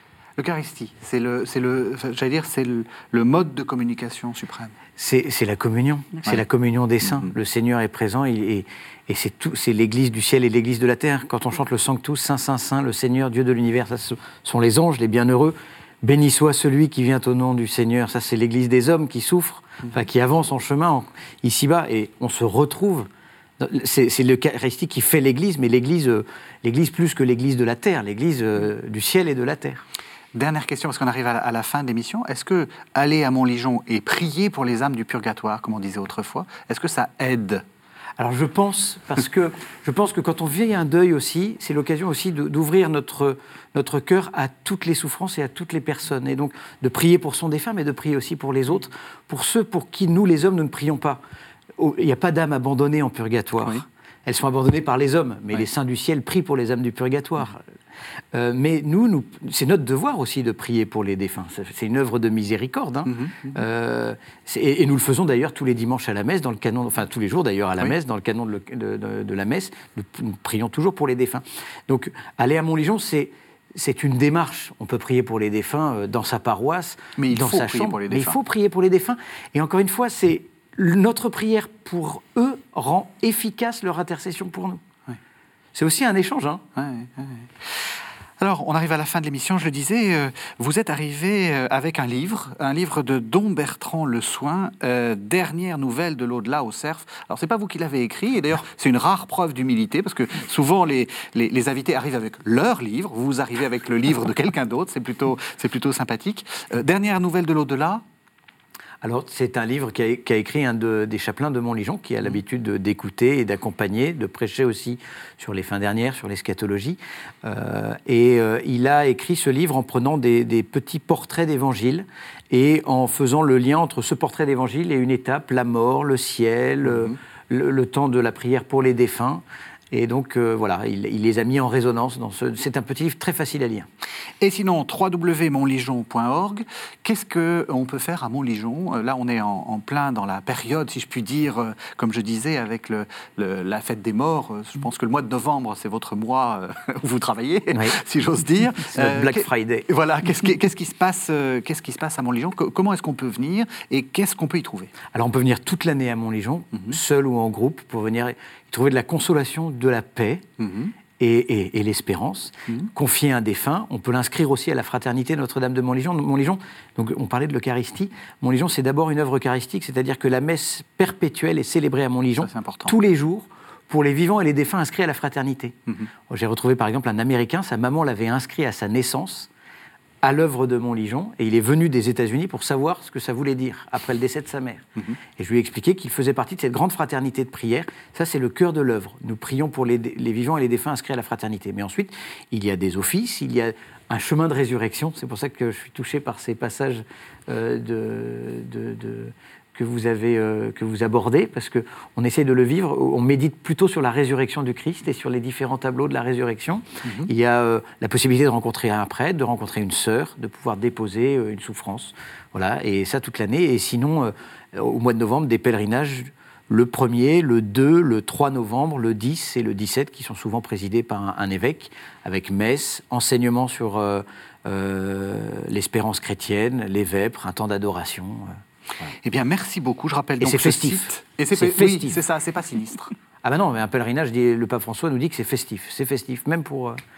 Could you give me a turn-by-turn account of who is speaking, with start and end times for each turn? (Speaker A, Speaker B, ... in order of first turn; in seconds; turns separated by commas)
Speaker A: 0.4-4.8, Speaker B: 5.0-29.9, Speaker A: 7.0-7.3, Speaker A: 30.3-37.6, Speaker B: 38.2-51.2, Speaker B: 51.8-57.7, Speaker B: 58.3-84.8, Speaker A: 63.1-63.6, Speaker A: 77.2-78.4, Speaker B: 85.7-86.7, Speaker A: 86.8-108.0, Speaker B: 109.0-133.9, Speaker A: 126.9-127.2, Speaker A: 134.4-154.9, Speaker B: 147.7-148.0, Speaker B: 148.8-149.9, Speaker B: 155.1-160.5, Speaker A: 156.7-157.0, Speaker A: 160.6-160.9, Speaker B: 161.2-179.5, Speaker A: 172.4-172.9, Speaker B: 180.2-229.2, Speaker A: 207.1-207.3, Speaker A: 229.2-233.1, Speaker B: 230.4-232.2, Speaker B: 233.4-237.0